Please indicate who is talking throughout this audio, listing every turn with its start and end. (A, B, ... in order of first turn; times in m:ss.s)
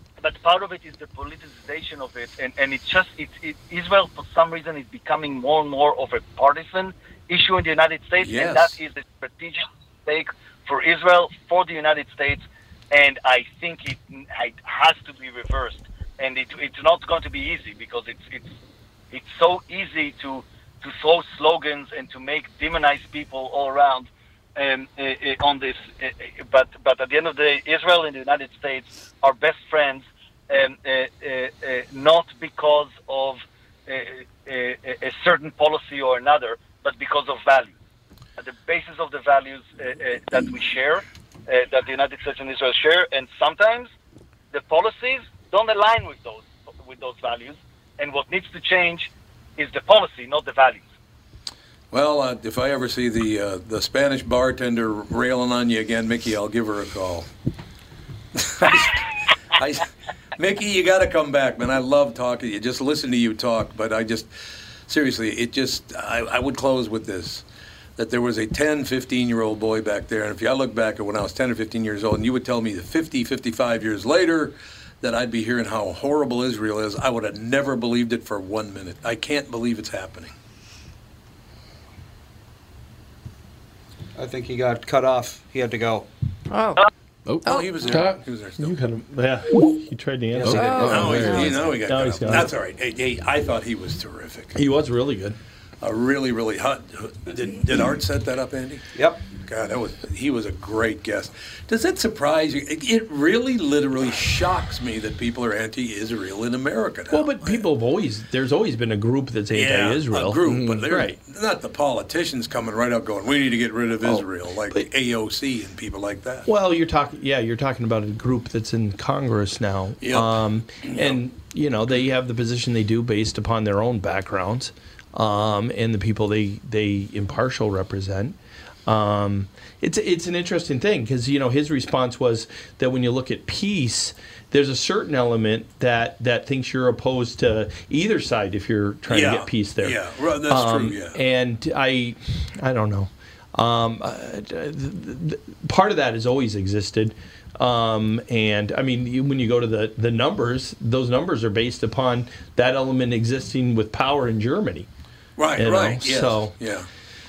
0:00.2-0:18.6 A
0:08.2-0:08.8 B
0:19.1-0:37.8 A
0:38.4-0:43.9 A
0:44.5-0:50.8 A
0:51.9-0:57.3 B
0:58.4-1:04.3 B
1:04.9-1:07.4 B
1:08.0-1:20.3 B
1:24.2-1:26.1 C
1:26.5-1:26.9 D
1:27.3-1:28.2 E
1:27.4-1:28.0 D
1:27.5-1:28.7 B
1:28.6-1:32.5 F
1:30.4-1:31.4 C
1:30.4-1:31.5 E
1:30.5-1:31.5 D
1:30.9-1:34.6 B
1:34.5-1:35.4 F
1:35.8-1:47.6 B
1:39.0-1:39.2 C
1:47.1-1:51.2 F
1:49.5-1:56.5 B
1:50.5-1:50.8 E
1:54.0-1:54.9 F
1:56.5-2:34.9 F
2:00.0-2:01.2 B
2:19.1-2:21.2 B
2:35.4-2:36.9 B
2:35.6-2:36.6 F